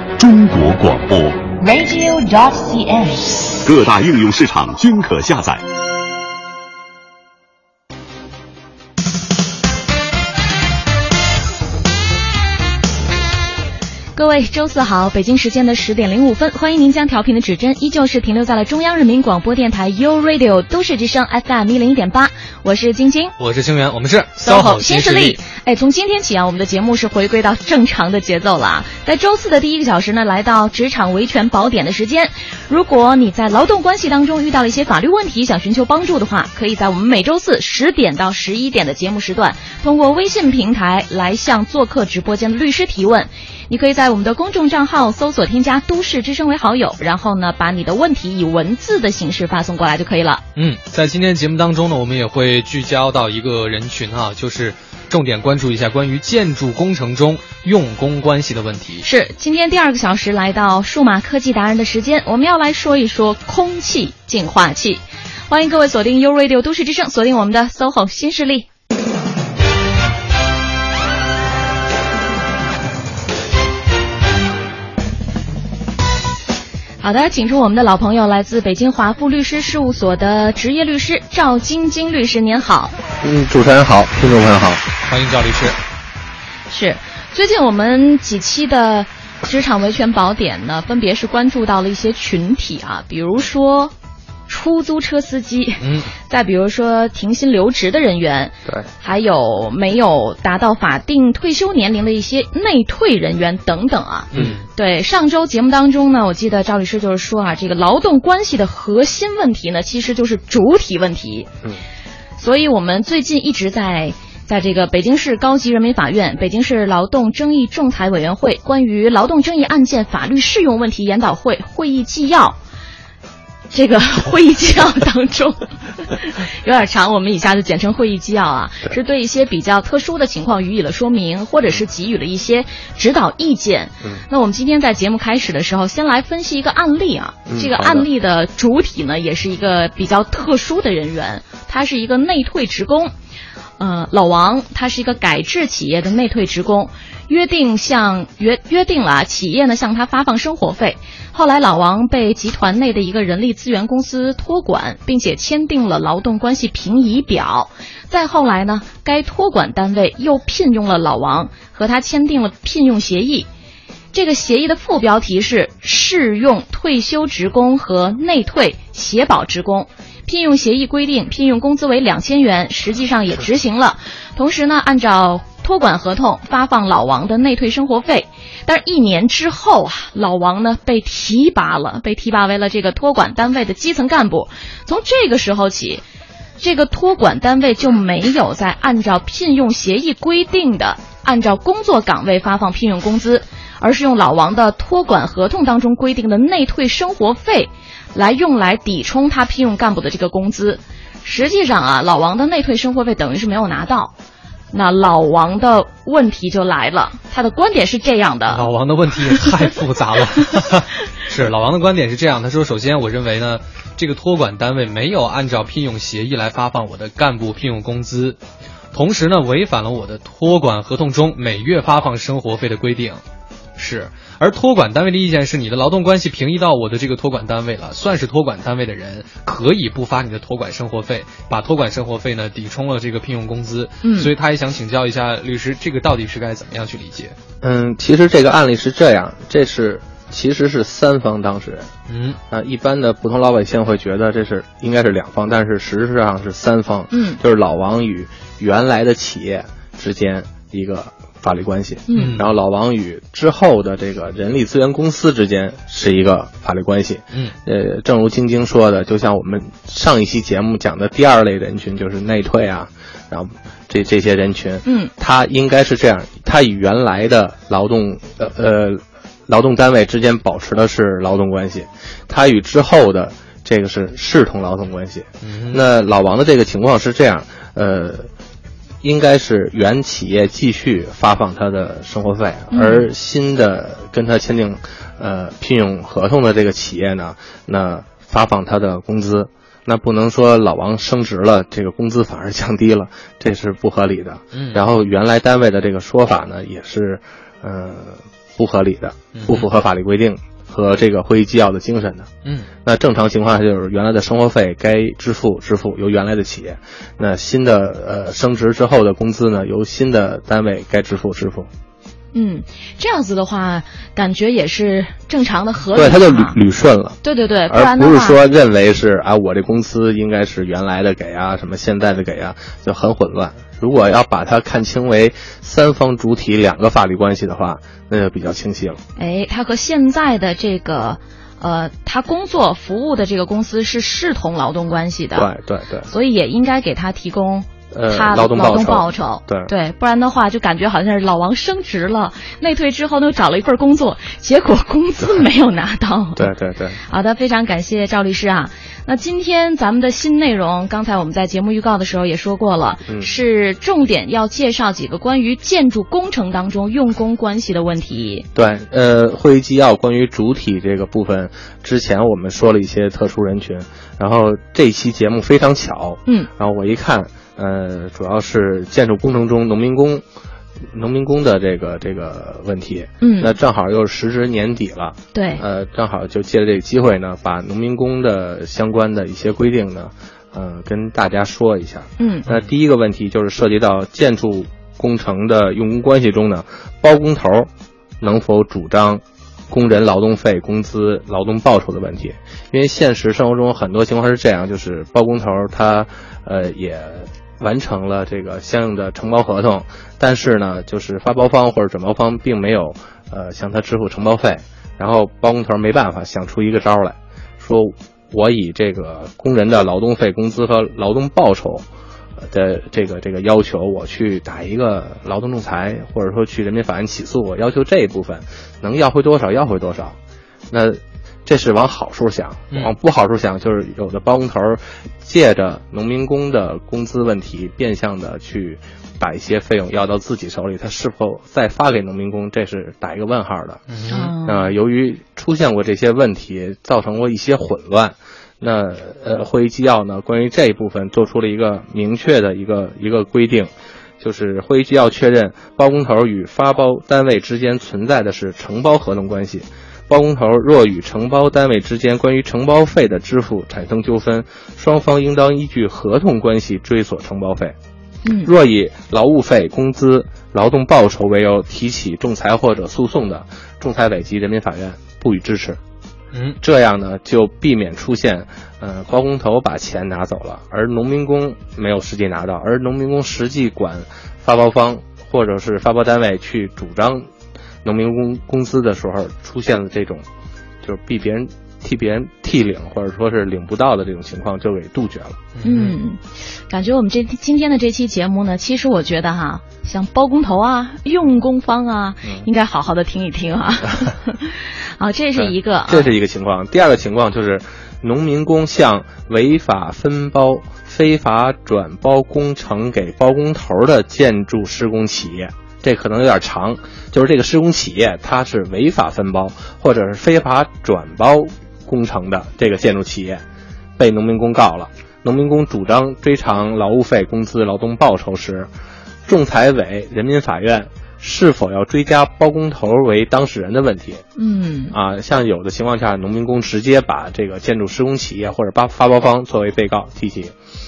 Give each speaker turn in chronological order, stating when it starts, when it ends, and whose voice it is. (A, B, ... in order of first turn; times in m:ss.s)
0:00.2-0:01.5 A
0:01.6-0:03.6 B
0:03.6-0:05.6 A
0:14.1-0:23.3 C
0:23.4-0:25.4 D
0:24.4-0:50.4 C
0:50.6-0:59.0 D
0:59.0-1:08.7 C
1:17.0-1:22.9 C
1:23.2-1:24.8 E
1:25.0-1:25.8 D
1:26.7-1:33.9 C
1:34.5-1:51.5 C
1:35.8-1:36.1 D
1:44.3-1:44.6 D
1:52.4-2:02.6 C
2:03.7-2:23.1 C
2:17.5-2:18.1 E
2:23.8-2:43.5 C
2:44.1-3:06.0 C
3:06.6-3:24.1 C
3:24.7-3:28.7 C
3:28.5-3:38.4 D
3:38.9-3:43.2 D
3:43.8-3:57.4 D
3:54.0-3:54.3 C
3:57.6-4:01.9 E
4:02.1-4:02.4 D
4:02.5-4:38.3 E
4:07.1-4:07.4 C
4:12.1-4:12.4 C
4:12.1-4:12.5 D
4:24.8-4:25.1 C
4:35.4-4:35.8 D
4:39.0-5:02.3 E
4:42.7-4:43.1 C
4:54.5-4:54.8 D
4:59.3-4:59.7 D
5:02.8-5:11.7 E
5:12.3-5:16.6 C
5:15.9-5:29.0 E
5:17.2-5:18.4 C
5:29.2-5:35.5 C
5:35.3-5:36.1 E
5:36.1-5:46.5 C
5:37.9-5:39.7 E
5:46.4-5:47.0 E
5:47.1-5:58.4 C
5:58.5-6:10.2 E
6:10.9-6:51.8 E
6:13.2-6:13.5 C
6:15.3-6:15.6 C
6:22.2-6:22.5 C
6:52.4-7:00.2 E
7:00.7-7:13.8 E
7:13.9-7:14.3 D
7:14.1-7:14.7 C
7:14.4-7:37.8 E
7:38.2-7:38.5 C
7:38.4-7:45.8 E
7:46.3-7:46.6 D
7:46.6-7:57.3 E
7:57.8-8:00.2 E
8:00.8-8:05.4 E
8:05.6-8:06.0 D
8:05.6-8:16.1 C
8:15.4-8:33.4 E
8:34.0-8:38.7 E
8:39.2-8:44.2 E
8:44.4-8:45.0 C
8:44.9-8:50.5 E